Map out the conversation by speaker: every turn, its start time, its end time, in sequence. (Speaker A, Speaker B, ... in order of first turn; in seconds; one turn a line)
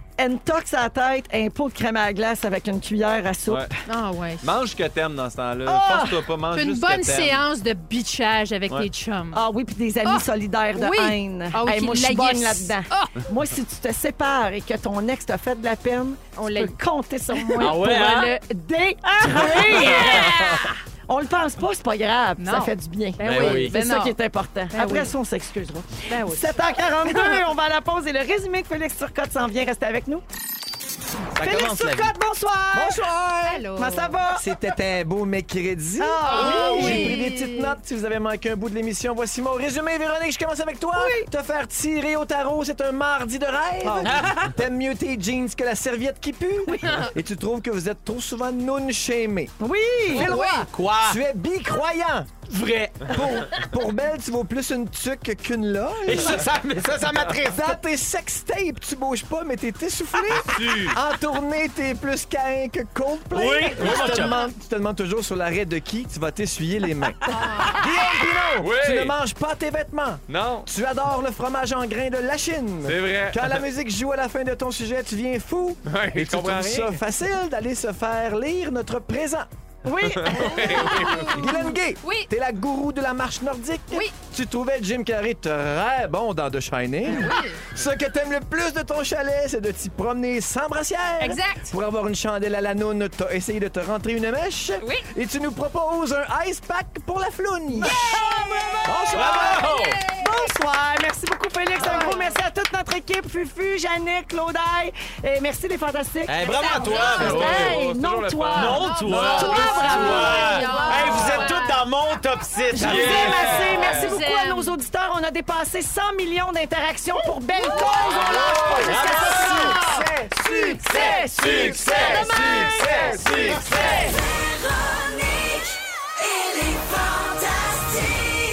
Speaker A: 0.2-3.8
Speaker B: 3.5-3.7
Speaker C: 3.9-4.5
Speaker B: 4.4-7.4
Speaker C: 5.7-9.4
Speaker A: 9.3-20.6
Speaker C: 10.1-13.2
Speaker C: 16.4-16.8
Speaker C: 17.3-17.9
Speaker D: 17.6-18.4
Speaker C: 19.2-20.8
Speaker D: 19.2-20.2
Speaker B: 20.1-20.5
Speaker A: 21.1-30.3
Speaker C: 22.4-24.2
Speaker D: 23.2-23.8
Speaker C: 24.7-25.1
Speaker C: 26.1-26.6
Speaker C: 27.1-27.4
Speaker D: 31.3-32.1
Speaker A: 31.4-33.1
Speaker E: 32.7-33.6
Speaker C: 33.4-34.2
Speaker A: 33.7-34.5
Speaker E: 34.3-49.5
Speaker A: 36.0-37.2
Speaker C: 36.2-37.8
Speaker A: 41.0-41.3
Speaker A: 43.8-44.2
Speaker D: 44.0-44.6
Speaker C: 46.8-47.1
Speaker A: 49.6-50.3
Speaker E: 50.1-52.5
Speaker C: 50.2-50.7
Speaker D: 50.3-51.2
Speaker D: 52.5-53.7
Speaker E: 53.0-56.5
Speaker D: 56.1-57.8
Speaker E: 57.5-79.5
Speaker B: 60.3-61.0
Speaker D: 63.3-64.4
Speaker B: 63.8-64.2
Speaker C: 64.2-64.5
Speaker C: 67.3-68.0
Speaker B: 68.6-69.2
Speaker B: 70.3-70.7
Speaker B: 72.8-73.7
Speaker B: 75.9-77.0
Speaker A: 79.8-81.2
Speaker B: 80.0-81.4
Speaker C: 80.4-82.3
Speaker E: 81.2-98.0
Speaker C: 83.9-84.2
Speaker C: 87.0-87.7
Speaker C: 91.2-91.7
Speaker C: 94.8-95.1
Speaker A: 97.7-99.6
Speaker C: 97.8-100.5
Speaker E: 98.8-99.6
Speaker D: 99.1-100.0
Speaker A: 100.2-111.5
Speaker C: 101.7-102.3
Speaker D: 106.3-107.8
Speaker C: 106.4-107.5
Speaker B: 107.1-110.5
Speaker D: 108.5-113.6
Speaker C: 108.7-111.8
Speaker A: 112.7-124.2
Speaker B: 112.8-114.1
Speaker C: 113.4-114.8
Speaker C: 117.7-118.8
Speaker B: 118.0-118.8
Speaker E: 118.5-124.2
Speaker D: 118.8-119.8
Speaker C: 119.3-120.1
Speaker D: 121.4-122.6
Speaker B: 123.0-123.6